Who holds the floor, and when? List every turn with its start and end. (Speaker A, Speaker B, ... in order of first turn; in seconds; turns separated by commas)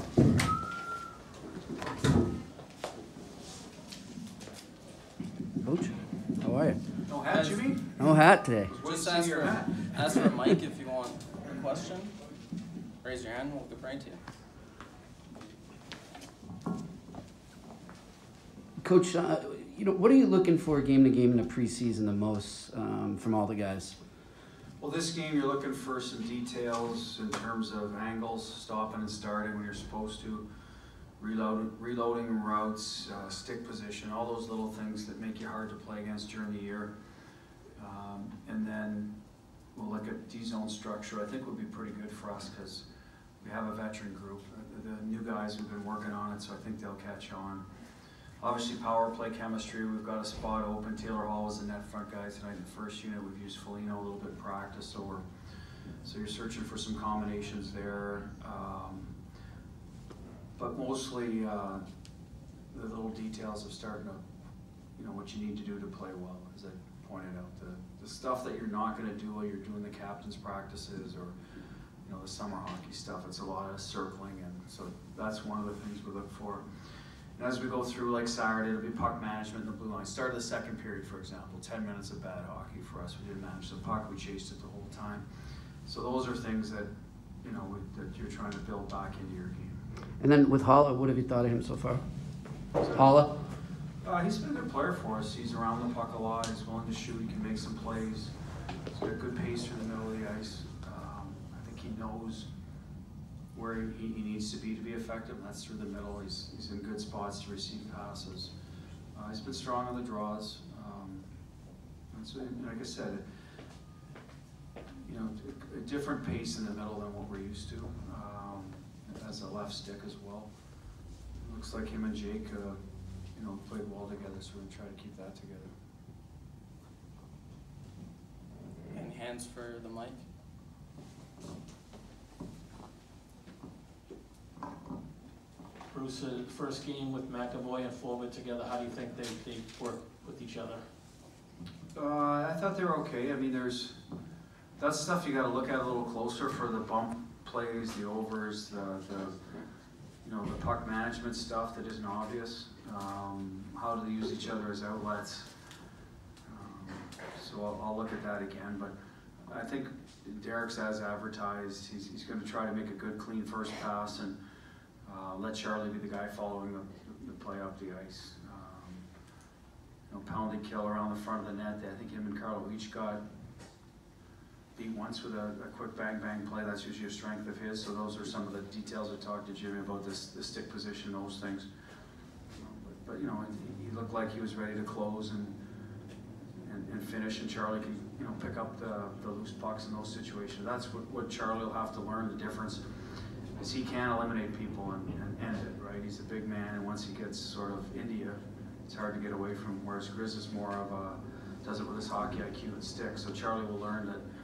Speaker A: 5.6-6.8, Speaker B: 7.1-7.9, Speaker C: 7.3-7.7, Speaker A: 8.0-8.7, Speaker B: 8.7-9.9, Speaker C: 8.8-12.1, Speaker C: 13.0-14.2, Speaker A: 18.8-24.0, Speaker B: 24.8-30.4, Speaker B: 31.2-36.9, Speaker B: 37.8-39.1, Speaker B: 39.7-42.8, Speaker B: 43.4-47.6, Speaker B: 48.4-55.2, Speaker B: 56.0-59.1, Speaker B: 60.6-61.8, Speaker B: 62.7-64.2, Speaker B: 65.0-71.3, Speaker B: 72.0-76.7, Speaker B: 77.4-85.2, Speaker B: 85.8-86.9, Speaker B: 87.4-89.8, Speaker A: 90.2-92.0, Speaker B: 92.8-93.2, Speaker A: 92.9-93.3, Speaker B: 94.0-98.3, Speaker B: 98.9-102.5, Speaker B: 103.5-108.5, Speaker B: 109.1-111.2, Speaker B: 112.1-113.2, Speaker B: 115.0-120.5, Speaker B: 121.3-122.8, Speaker B: 123.3-125.7, Speaker C: 128.9-130.2, Speaker D: 135.9-140.8, Speaker B: 141.9-144.0, Speaker B: 144.8-149.4, Speaker B: 150.2-155.5, Speaker B: 156.5-164.4, Speaker B: 165.1-169.0, Speaker B: 170.1-173.2, Speaker B: 174.8-181.7, Speaker B: 182.6-185.6, Speaker B: 186.6-192.8, Speaker B: 193.6-204.2